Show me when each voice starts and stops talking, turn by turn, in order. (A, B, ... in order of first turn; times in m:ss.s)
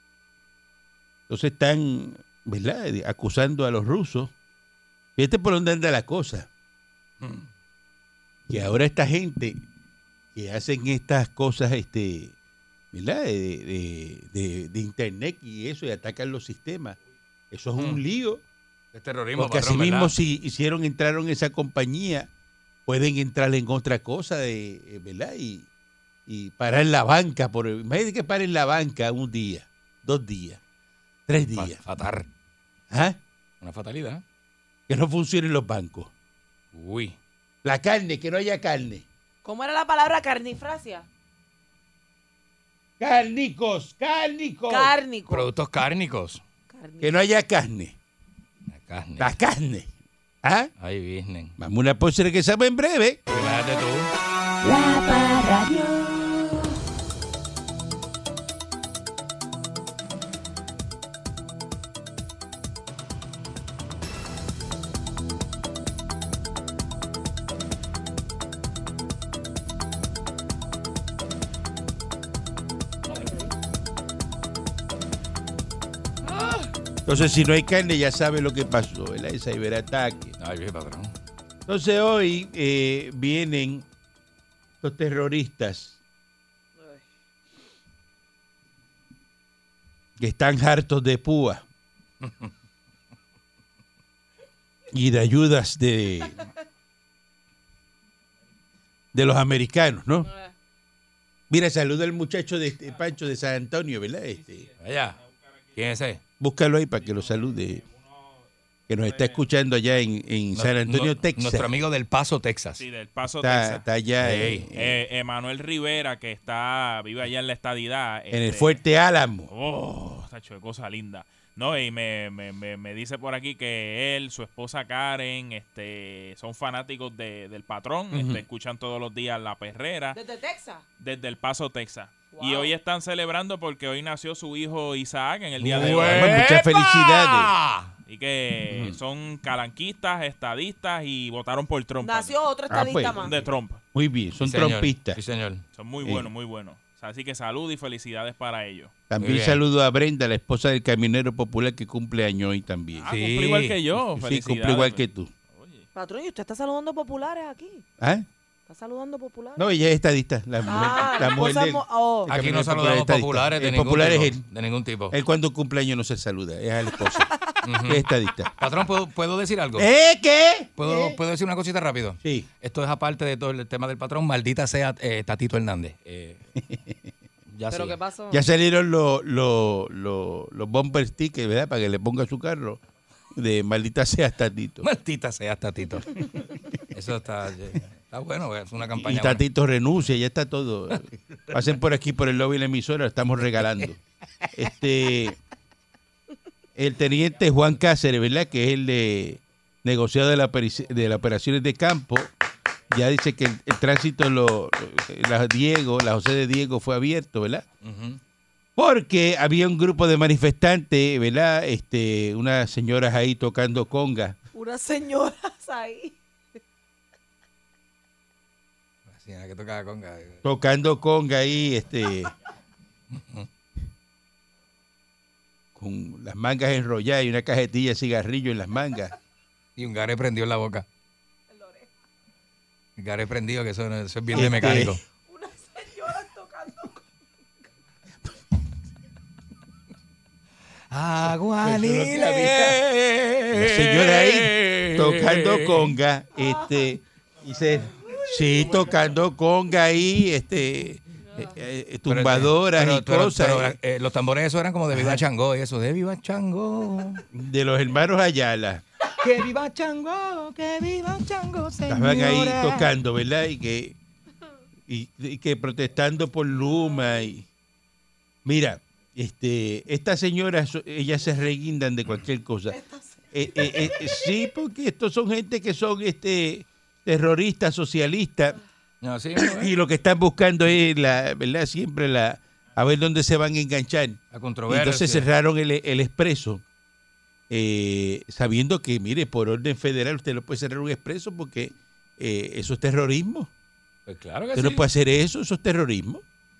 0:01.3-0:04.3 A
0:05.2-0:06.5 A
0:08.5-0:09.6 A
0:10.3-0:12.3 A
0:12.9-0:17.0 A
0:17.5-0:18.4 A
0:17.8-0:18.0 B
0:18.9-0:20.1 B
0:19.4-0:22.3 A
0:22.9-0:25.7 A
0:26.3-0:30.6 A
0:31.3-0:31.8 A
0:31.5-0:32.3 B
0:32.9-0:33.2 A
0:33.6-0:34.2 B
0:34.9-0:36.1 A
0:36.7-0:37.2 B
0:37.6-0:39.0 A
0:39.4-0:41.0 C
0:43.0-0:44.9 A
0:44.7-0:45.5 C
0:45.3-0:46.4 B
0:46.7-0:47.1 C
0:47.0-0:47.9 A
0:48.7-0:49.3 B
0:49.2-0:49.9 A
0:50.4-0:50.7 A
0:50.8-0:51.5 B
0:51.6-0:53.2 A
0:53.3-0:54.1 B
0:54.6-0:56.5 C
1:16.3-1:16.7 B
1:17.0-1:20.4 A
1:20.4-1:21.1 B
1:21.7-1:23.8 A
1:24.8-1:26.0 A
1:30.2-1:31.6 A
1:34.9-1:36.4 A
1:39.1-1:40.3 A
1:41.5-1:44.6 A
1:44.3-1:45.9 D
1:44.8-1:45.2 B
1:45.8-1:46.2 B
1:46.4-1:47.8 A
1:47.0-1:48.4 D
1:48.9-1:51.7 A
1:49.0-1:49.4 D
1:50.5-1:52.8 B
1:52.8-1:53.8 D
1:53.4-1:55.0 A
1:54.2-1:54.7 B
1:54.8-1:58.8 D
1:58.3-1:59.5 A
1:59.5-2:10.2 D
2:08.1-2:08.4 A
2:10.1-2:10.8 C
2:11.0-2:16.4 D
2:12.3-2:12.7 C
2:15.6-2:17.9 B
2:15.7-2:17.5 A
2:18.1-2:22.4 D
2:18.7-2:19.0 A
2:22.0-2:23.3 C
2:22.7-2:25.2 A
2:23.2-2:23.8 D
2:24.4-2:25.6 B
2:25.7-2:28.9 D
2:26.0-2:26.3 A
2:29.1-2:33.1 A
2:29.2-2:29.6 B
2:33.0-2:35.8 D
2:33.1-2:33.8 B
2:34.2-2:35.3 A
2:35.9-2:37.8 C
2:38.0-2:38.2 A
2:38.7-2:39.6 C
2:39.6-2:44.4 A
2:40.6-2:42.3 C
2:42.3-2:45.2 B
2:45.1-2:47.3 A
2:47.6-2:48.0 B
2:47.8-2:48.5 A
2:48.6-2:49.9 B
2:49.8-2:51.2 A
2:50.8-2:56.4 B
2:52.2-2:52.5 A
2:56.6-2:57.0 A
2:57.5-2:58.0 B
2:57.7-2:58.4 C
2:58.3-3:02.8 A
3:03.3-3:04.9 A
3:04.8-3:06.3 B
3:06.9-3:09.4 B
3:08.9-3:14.0 A
3:14.6-3:15.4 A
3:16.8-3:22.3 A
3:22.9-3:27.6 A
3:27.8-3:28.2 B
3:28.8-3:34.4 A
3:34.5-3:36.2 C
3:39.1-3:40.4 B
3:40.4-3:42.3 A
3:43.1-3:43.5 B
3:45.8-3:49.1 A
3:49.8-3:50.8 B
3:51.5-3:51.9 C
3:53.0-3:55.0 B
3:54.3-3:55.0 A
3:55.2-3:57.0 C
4:00.9-4:05.9 B
4:01.6-4:02.8 A
4:03.5-4:13.8 A
4:06.4-4:06.8 C
4:08.8-4:09.0 D
4:12.1-4:17.2 B
4:14.9-4:15.2 A
4:17.3-4:18.8 A
4:19.2-4:22.9 B
4:21.9-4:24.0 A
4:24.9-4:27.4 A
4:28.4-4:32.8 A
4:32.7-4:33.2 C
4:33.3-4:38.6 A
4:39.0-4:39.7 B
4:39.4-4:46.6 A
4:44.3-4:45.2 B
4:47.5-4:53.5 A
4:54.1-4:54.8 B
4:54.5-4:56.2 A